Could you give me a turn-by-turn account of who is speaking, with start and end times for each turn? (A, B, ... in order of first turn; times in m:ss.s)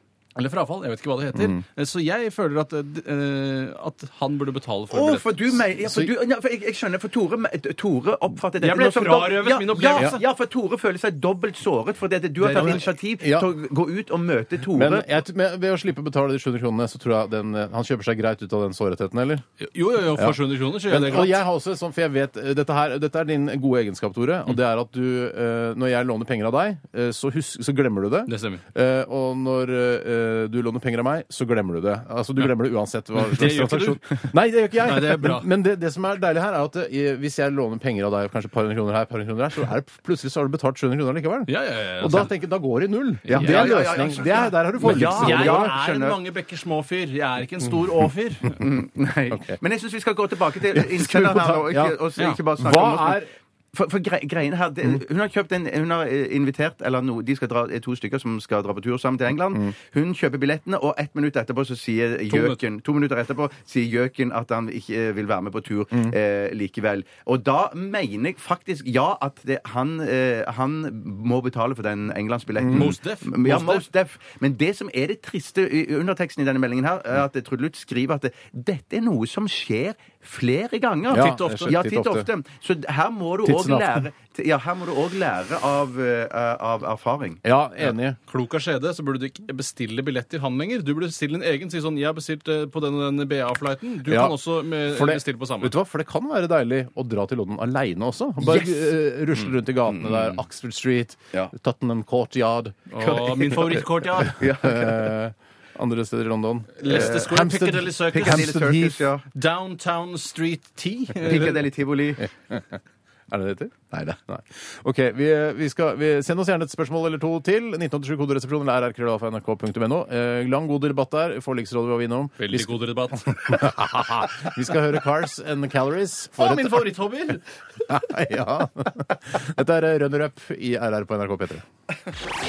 0:00.4-0:05.3 A
0:01.3-0:01.6 B
0:04.9-0:15.1 C
0:05.8-0:06.1 B
0:08.6-0:10.2 A
0:12.4-0:12.8 A
0:12.5-0:13.5 B
0:14.7-0:19.4 B
0:19.6-0:21.4 A
0:20.2-0:45.8 B
0:28.3-0:28.6 A
0:33.2-0:34.2 A
0:34.8-0:35.5 A
0:41.5-0:42.3 A
0:43.3-0:46.2 C
0:43.3-0:44.0 A
0:44.8-0:48.6 A
0:48.6-1:27.4 C
0:49.3-0:49.6 B
0:50.7-0:52.0 B
0:52.6-0:53.3 B
1:02.3-1:02.6 A
1:12.6-1:12.9 B
1:12.7-1:13.8 A
1:21.1-1:22.3 B
1:21.1-1:21.8 A
1:23.4-1:24.1 B
1:27.4-1:28.2 B
1:27.8-1:35.7 A
1:34.0-1:42.9 B
1:38.4-1:38.9 C
1:39.9-1:40.4 C
1:42.9-1:44.4 A
1:43.0-1:45.2 C
1:44.6-1:49.0 B
1:46.8-1:48.5 A
1:46.9-1:47.4 C
1:48.1-1:49.3 C
1:49.4-1:51.6 A
1:51.2-1:52.3 C
1:52.5-2:06.9 B
2:02.4-2:03.8 A
2:06.4-2:07.5 A
2:07.9-2:11.6 B